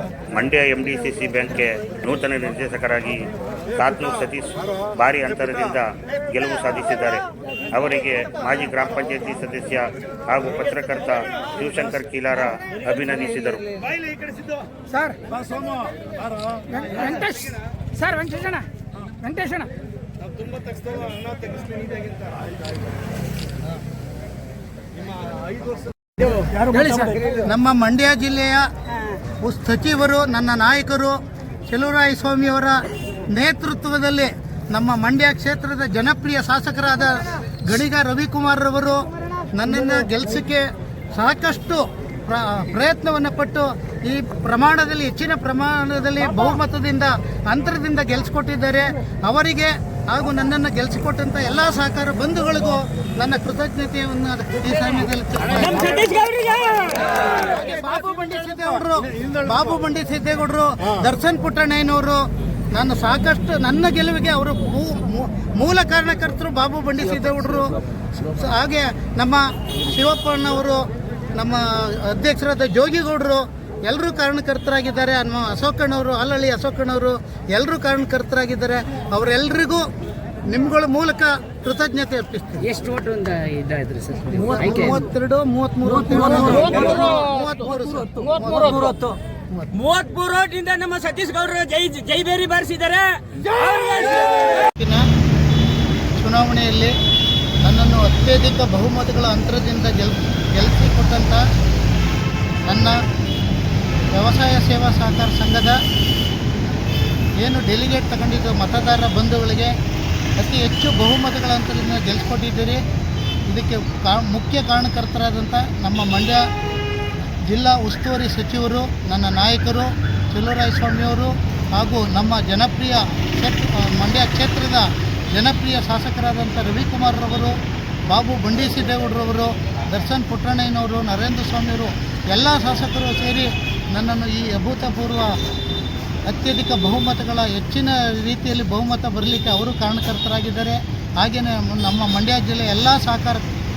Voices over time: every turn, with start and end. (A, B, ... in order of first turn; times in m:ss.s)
0:00.3-0:13.9 A
0:16.8-0:17.5 B
0:18.0-0:18.5 B
0:26.3-0:27.2 B
0:27.3-0:28.7 C
0:29.4-0:56.3 C
0:56.0-0:57.1 B
0:57.2-1:19.9 C
1:20.5-1:22.8 C
1:22.7-1:24.9 B
1:24.4-1:29.7 C
1:26.4-1:27.1 B
1:28.2-1:29.1 B
1:29.7-1:34.7 B
1:34.7-1:35.0 C
1:36.1-1:37.0 C
1:37.6-1:41.4 C
1:42.7-1:43.0 C
1:44.1-1:45.8 C
1:47.4-1:49.7 C
1:50.4-1:52.8 C
1:53.5-1:56.4 C
1:57.5-2:07.6 C
2:08.1-2:15.4 C
2:16.3-2:23.4 C